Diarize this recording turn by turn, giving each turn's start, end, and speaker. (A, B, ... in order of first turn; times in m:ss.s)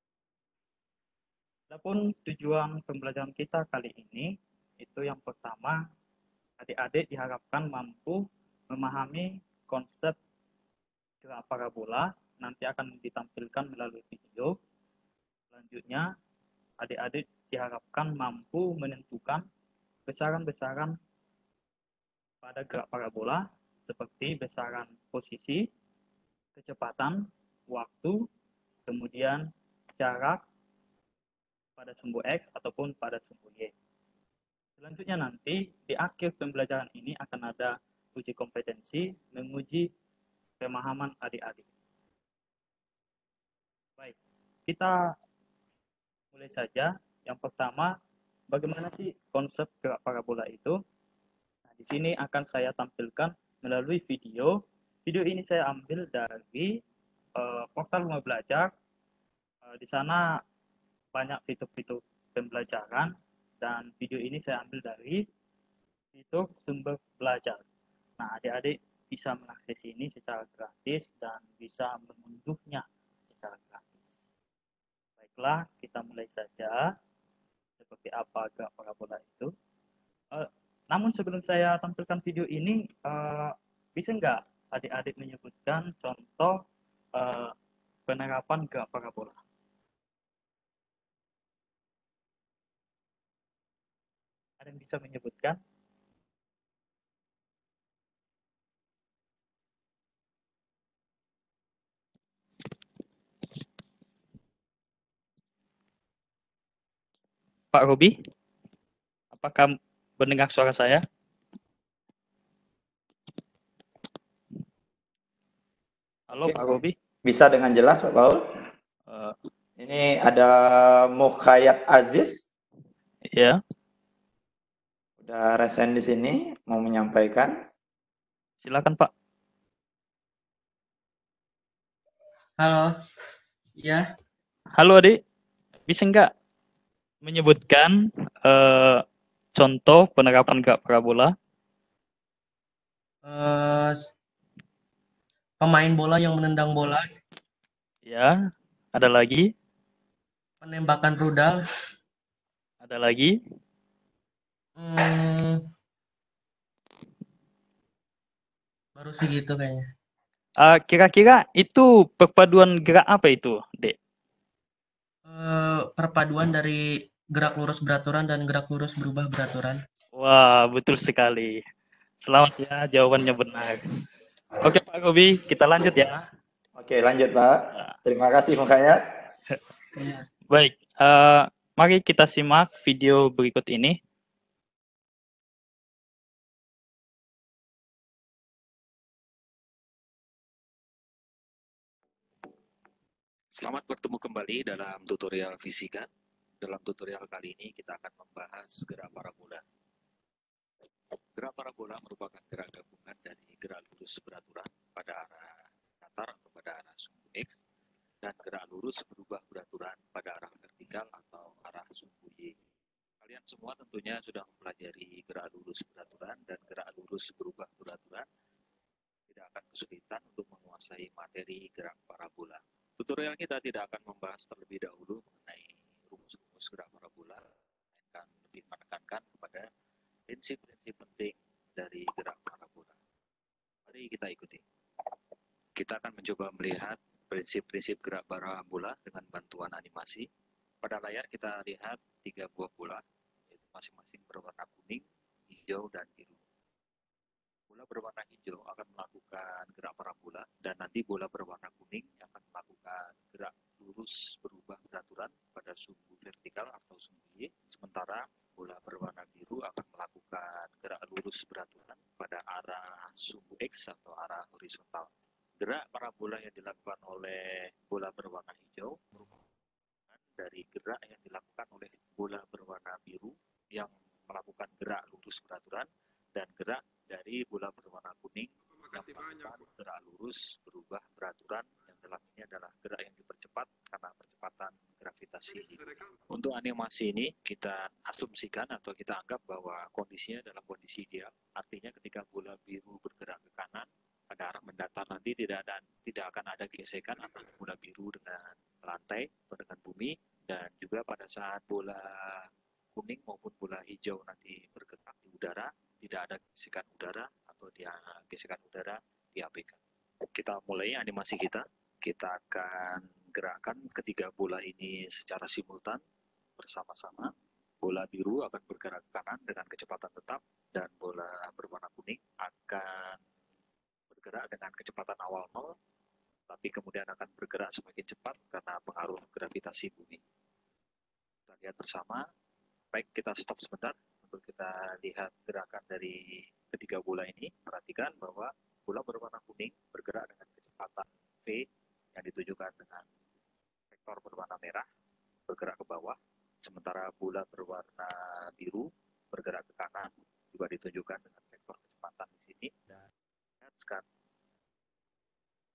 0:01.7-0:05.8 A
0:06.6-0:10.2 A
0:11.2-0:14.5 A
0:15.5-0:16.1 A
0:16.8-0:19.4 A
0:20.1-0:21.0 A
0:22.4-0:25.6 A
0:26.6-0:28.2 A
0:28.8-0:30.4 A
0:31.8-0:33.7 A
0:34.8-0:39.9 A
0:40.6-0:41.6 A
0:44.7-0:45.0 A
0:46.3-0:47.9 A
0:48.5-0:50.8 A
0:51.8-0:56.8 A
0:57.4-0:58.7 A
0:59.6-1:00.4 A
1:01.1-1:05.2 A
1:06.1-1:07.6 A
1:08.2-1:14.1 A
1:15.2-1:16.9 A
1:17.8-1:19.5 A
1:20.3-1:26.6 A
1:27.2-1:27.5 A
1:28.1-1:29.4 A
1:34.6-1:35.6 A
1:47.7-1:48.1 A
1:49.3-1:51.0 A
1:56.3-1:56.9 A
1:56.4-1:56.7 B
1:57.2-1:58.4 B
1:59.1-1:59.4 A
1:59.8-2:02.4 B
2:03.3-2:03.6 A
2:05.2-2:07.5 B
2:08.6-2:09.1 A
2:12.6-2:12.9 C
2:13.8-2:14.0 C
2:14.8-2:15.2 A
2:15.9-2:16.3 A
2:17.2-2:19.0 A
2:19.5-2:21.3 A
2:23.2-2:24.1 C
2:25.6-2:27.1 C
2:28.0-2:28.4 A
2:28.9-2:29.5 A
2:30.6-2:31.6 C
2:32.8-2:33.3 A
2:34.8-2:35.7 C
2:38.9-2:39.9 C
2:40.6-2:44.0 A
2:45.2-2:49.8 C
2:50.2-2:51.6 A
2:52.2-2:53.8 A
2:54.6-2:56.2 A
2:56.8-2:59.0 B
3:00.0-3:00.2 C
3:00.5-3:04.0 A
3:13.6-3:16.1 D
3:16.6-3:19.6 D
3:21.3-3:27.5 D
3:28.2-3:32.6 D
3:33.2-3:38.3 D
3:39.3-3:47.4 D
3:48.0-3:49.7 D
3:50.3-3:53.0 D
3:53.8-3:54.6 D
3:55.8-4:00.3 D
4:00.8-4:06.4 D
4:07.7-4:29.4 D
4:30.1-5:09.8 D
5:10.3-5:16.0 D
5:16.6-5:23.2 D
5:24.1-5:25.7 D
5:26.5-5:30.2 D
5:31.5-5:32.2 D
5:32.9-5:43.1 D
5:43.9-5:44.8 D
5:45.5-5:52.7 D
5:53.6-5:54.0 D